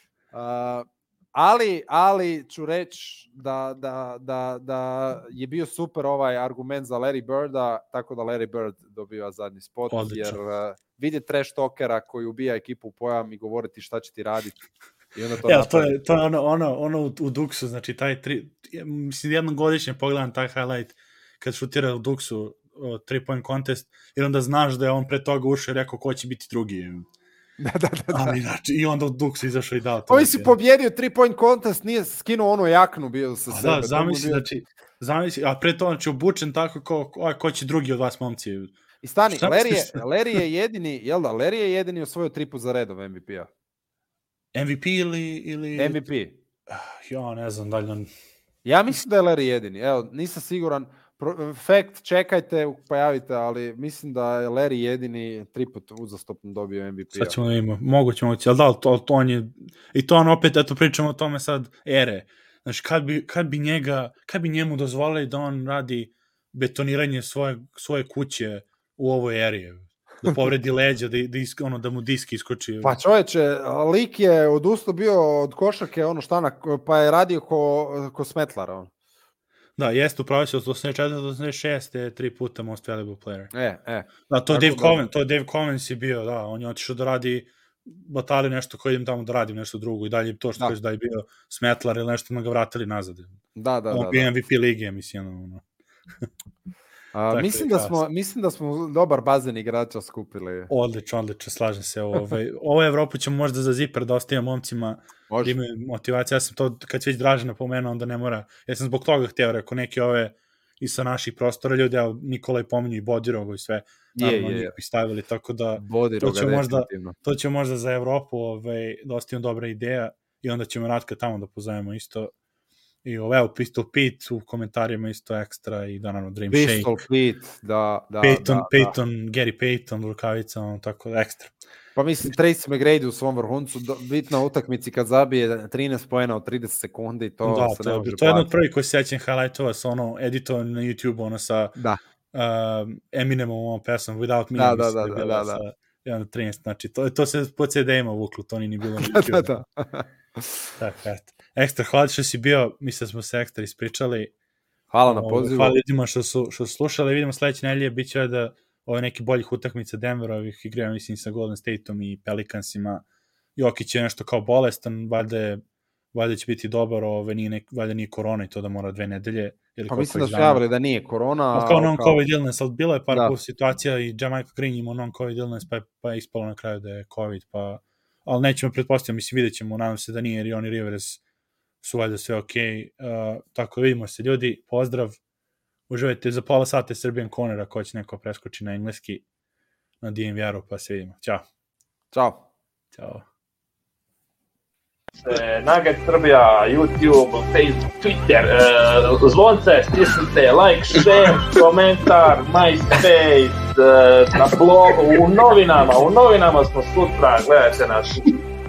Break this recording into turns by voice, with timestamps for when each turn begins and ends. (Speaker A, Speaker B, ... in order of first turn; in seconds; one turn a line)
Speaker A: 0.3-16.0
Speaker B: 9.9-10.4
Speaker B: 15.4-27.1
Speaker A: 27.6-28.3
Speaker B: 28.1-30.5
Speaker A: 30.1-34.4
Speaker B: 33.5-38.7
Speaker A: 39.0-43.5
Speaker B: 39.3-40.0
Speaker B: 44.5-46.0
Speaker A: 45.8-46.4
Speaker B: 46.7-48.1
Speaker A: 48.6-57.4
Speaker B: 57.1-73.0
Speaker A: 72.8-78.9
Speaker B: 79.8-83.5
Speaker A: 83.5-85.0
Speaker B: 84.3-93.4
Speaker A: 93.5-94.3
Speaker B: 93.9-95.6
Speaker A: 97.1-100.7
Speaker B: 97.3-98.0
Speaker B: 100.7-122.3
Speaker A: 105.3-105.5
Speaker A: 114.2-114.7
Speaker A: 115.8-117.1
Speaker B: 123.0-126.9
Speaker A: 126.5-128.9
Speaker B: 128.2-131.5
Speaker A: 131.9-138.5
Speaker B: 137.4-141.7
Speaker B: 142.3-149.6
Speaker A: 144.6-145.6
Speaker A: 149.0-150.5
Speaker B: 150.8-154.3
Speaker A: 154.9-155.8
Speaker B: 155.1-163.0
Speaker B: 163.6-165.6
Speaker B: 166.1-170.6
Speaker A: 169.9-172.2
Speaker B: 171.5-181.2
Speaker B: 181.8-185.2
Speaker B: 185.9-189.2
Speaker B: 190.0-191.4
Speaker A: 192.1-192.4
Speaker B: 192.9-193.2
Speaker C: 195.2-208.4